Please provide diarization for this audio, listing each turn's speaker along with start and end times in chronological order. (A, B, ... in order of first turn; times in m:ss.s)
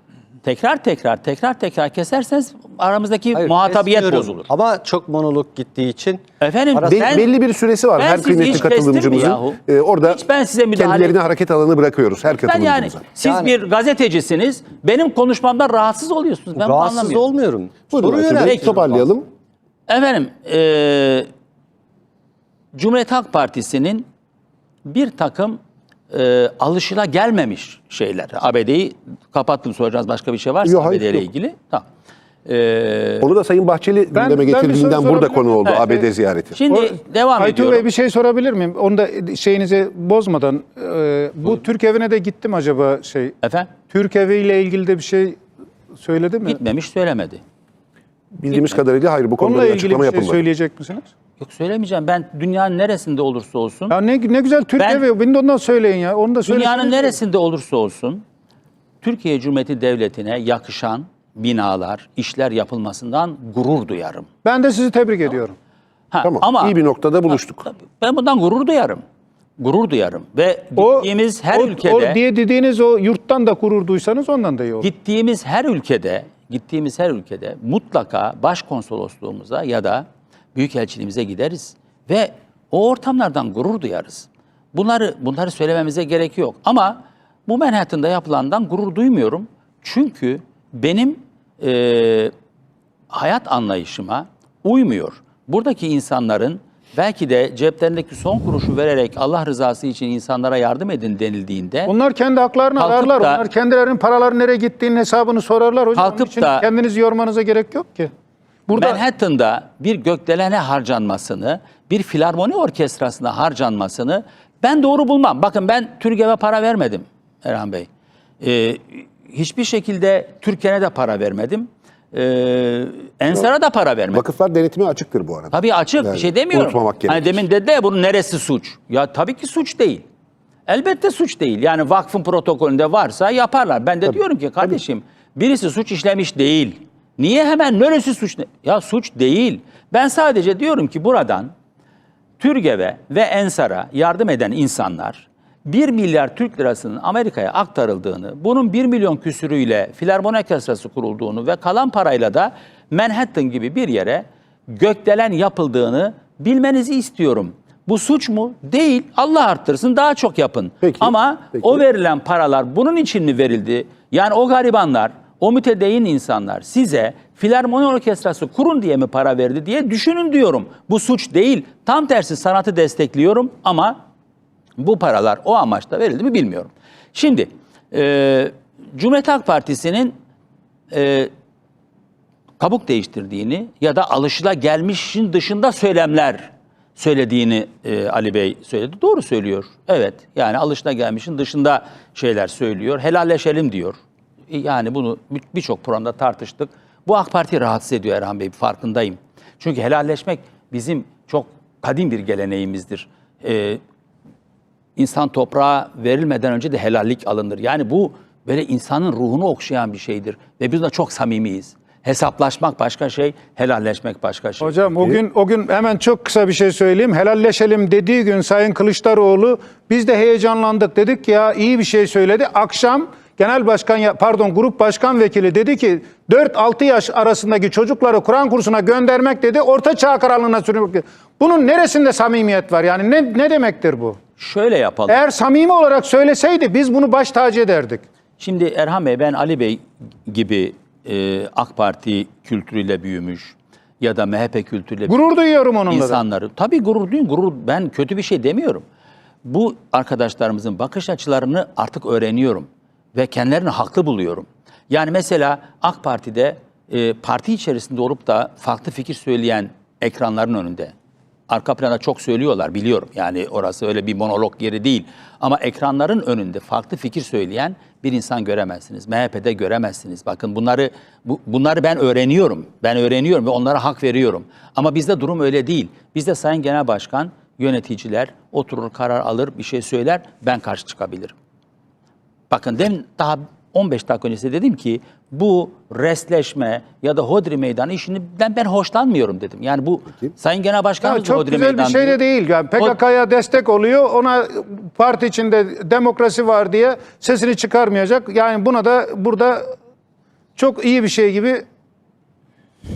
0:00.4-0:04.5 A
0:03.3-0:06.2 B
0:06.4-0:07.3 A
0:06.7-0:07.2 B
0:06.8-0:13.0 C
0:08.0-0:11.2 A
0:12.4-0:17.2 A
0:13.2-0:13.5 B
0:16.6-0:19.0 B
0:17.9-0:19.2 C
0:18.4-0:18.9 A
0:19.9-0:21.3 A
0:22.7-0:24.0 A
0:24.8-0:25.6 A
0:26.1-0:31.8 A
0:30.6-0:31.3 C
0:32.4-0:33.3 A
0:33.2-0:36.6 C
0:34.1-0:36.0 D
0:36.5-0:37.8 A
0:36.7-0:43.3 D
0:43.4-0:43.7 A
0:43.9-0:45.4 D
0:45.9-0:46.6 D
0:46.4-0:47.4 A
0:48.3-0:50.4 C
0:49.4-0:51.1 D
0:51.4-0:53.9 A
0:53.9-0:57.1 D
0:54.8-0:55.0 A
0:56.4-0:58.2 A
0:59.0-1:04.3 A
1:04.4-1:05.5 D
1:06.1-1:06.8 A
1:06.2-1:07.6 C
1:07.3-1:09.0 A
1:09.6-1:12.2 A
1:10.8-1:14.9 D
1:14.8-1:32.3 A
1:33.1-1:41.9 A
1:41.9-1:48.1 D
1:42.8-1:43.4 A
1:45.9-1:46.6 A
1:48.7-1:49.0 D
1:48.7-1:57.9 A
1:58.4-2:04.2 A
2:04.1-2:07.4 C
2:05.5-2:10.0 A
2:10.7-2:21.5 A
2:22.4-2:54.0 A
2:40.8-2:41.8 C
2:54.8-3:00.1 A
3:00.9-3:01.3 A
3:02.6-3:14.0 A
3:14.5-3:23.8 A
3:25.0-3:34.8 A
3:34.6-3:54.2 D
3:54.4-3:55.2 A
3:55.1-3:58.0 D
3:58.4-4:05.2 A
4:05.1-4:06.2 D
4:05.9-4:08.8 A
4:09.4-4:20.9 A
4:21.5-4:41.3 A
4:42.5-4:52.2 A
4:51.0-4:59.7 D
5:00.6-5:01.6 D